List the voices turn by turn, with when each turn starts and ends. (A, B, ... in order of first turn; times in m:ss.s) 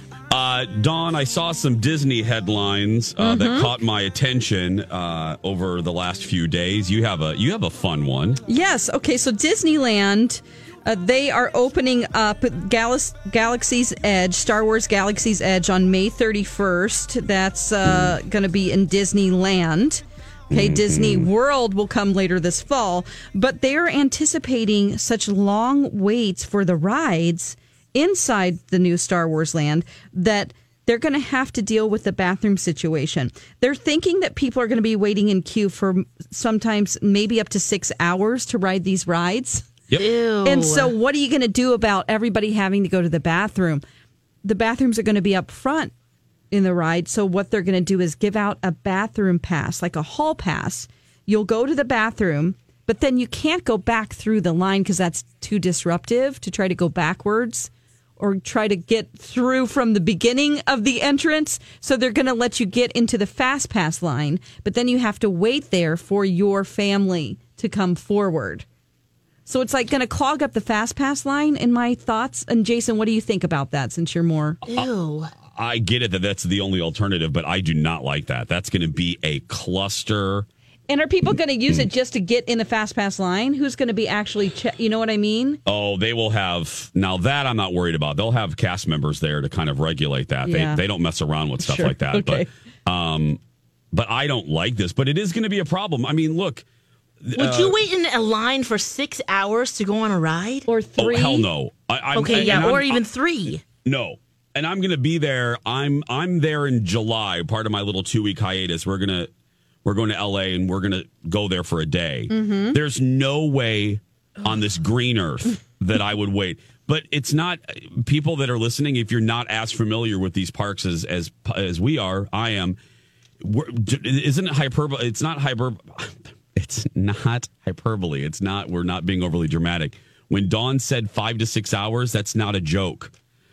0:00.3-0:08.4 A
0:03.2-0:03.7 B
0:08.5-0:39.6 B
0:17.8-0:18.2 A
0:20.5-0:21.3 A
0:39.9-0:40.9 C
0:40.4-0:43.8 B
0:44.4-0:45.9 B
0:46.5-1:08.6 B
1:09.5-1:14.6 B
1:14.6-1:14.9 A
1:14.7-1:15.3 C
1:15.5-1:20.5 A
1:20.9-1:25.6 B
1:25.6-1:33.4 A
1:30.4-1:30.8 B
1:31.6-1:32.5 B
1:33.9-1:36.6 A
1:37.2-1:37.7 A
1:37.4-1:40.7 C
1:40.7-1:41.4 B
1:41.0-1:49.3 A
1:42.1-1:43.6 C
1:42.3-1:42.8 B
1:49.8-2:02.8 A
1:52.3-1:52.7 B
2:03.4-2:13.1 A